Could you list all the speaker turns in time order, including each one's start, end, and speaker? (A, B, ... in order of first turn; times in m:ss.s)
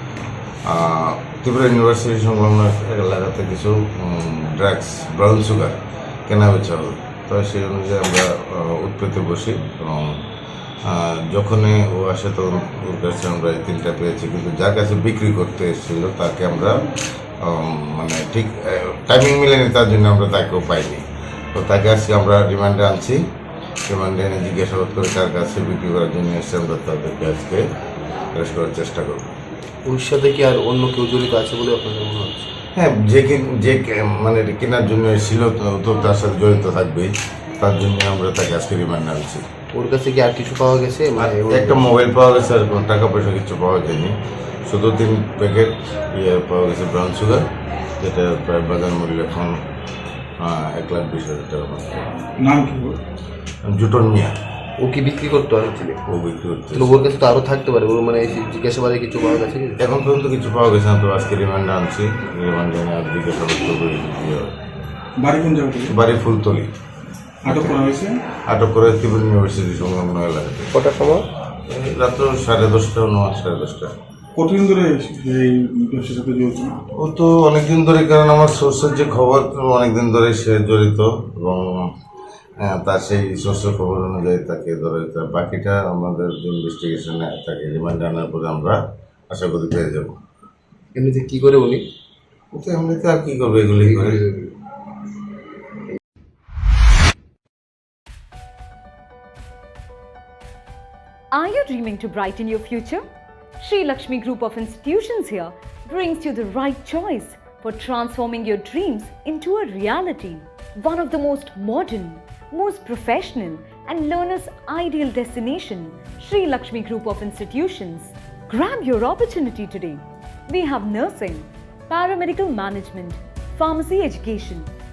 0:00.7-0:10.2 A
0:10.8-0:16.9 A
0:17.4-0:21.0 A
0:21.5-0:23.2 A
0:23.9-0:27.6 A
0:28.3-0:29.3 A
0:29.9-0:32.5 B
0:32.8-0:39.4 A
0:39.7-0:41.9 B
0:41.2-0:47.4 A
0:48.0-0:49.6 A
0:50.4-0:52.2 A
0:52.4-0:53.0 C
0:53.6-0:54.3 A
0:54.8-0:56.0 B
0:56.1-0:57.1 A
0:56.7-0:59.8 B
0:59.8-1:04.5 A
1:05.2-1:05.9 C
1:05.9-1:06.7 A
1:07.4-1:08.2 C
1:07.4-1:07.8 A
1:08.5-1:10.8 A
1:10.7-1:11.2 B
1:11.7-1:13.9 A
1:14.4-1:16.8 C
1:16.9-1:21.9 A
1:22.6-1:28.8 A
1:29.3-1:30.1 A
1:31.0-1:31.8 B
1:32.5-1:34.2 A
1:34.0-1:34.5 B
1:41.3-1:43.0 D
1:43.6-2:04.7 D